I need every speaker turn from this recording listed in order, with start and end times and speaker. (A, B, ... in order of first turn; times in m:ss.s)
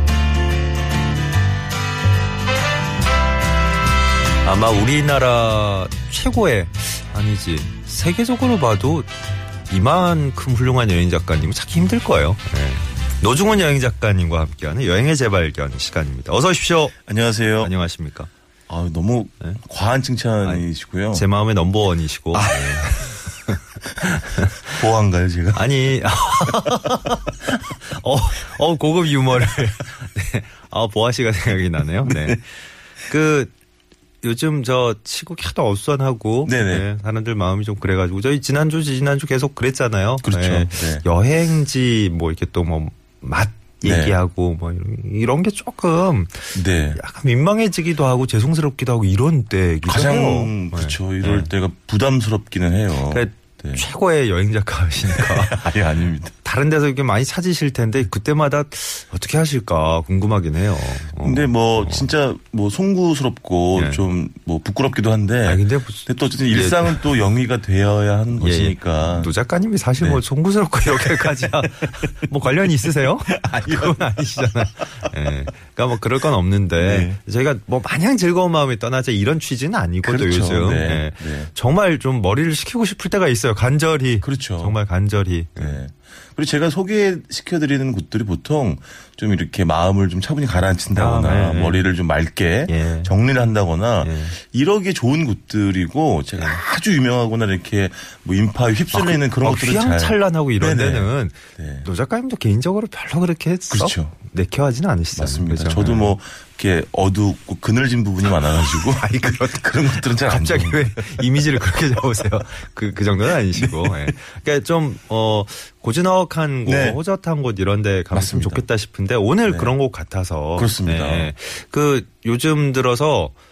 0:04.4-0:09.1 A
0:09.7-0:17.0 A
0:17.1-0:17.7 B
0:17.6-0:18.3 A
0:18.7-0:21.2 B
0:20.4-0:24.8 A
0:22.3-0:23.1 B
0:24.7-0:26.6 B
0:25.5-0:32.5 A
0:32.0-0:32.4 B
0:33.1-0:33.5 A
0:34.2-0:51.5 A
0:36.4-0:36.9 B
0:40.2-0:41.0 B
0:43.8-0:44.2 B
0:46.5-0:47.0 B
0:49.8-0:53.8 B
0:53.1-1:02.1 A
0:55.1-0:56.3 B
1:01.2-1:09.3 B
1:03.7-1:04.0 A
1:05.4-1:07.2 A
1:08.4-1:25.8 A
1:11.0-1:12.1 B
1:13.3-1:15.5 B
1:16.8-1:17.2 B
1:20.0-1:21.5 B
1:24.2-1:24.8 B
1:25.6-1:41.9 B
1:30.9-1:31.9 A
1:32.7-1:33.1 A
1:34.0-1:34.3 A
1:38.9-1:46.1 A
1:43.7-1:44.1 B
1:45.1-1:51.6 B
1:48.2-2:03.3 A
1:53.5-1:54.1 B
1:56.6-1:57.0 B
1:58.1-1:58.6 B
1:59.4-1:59.8 B
2:00.6-2:01.3 B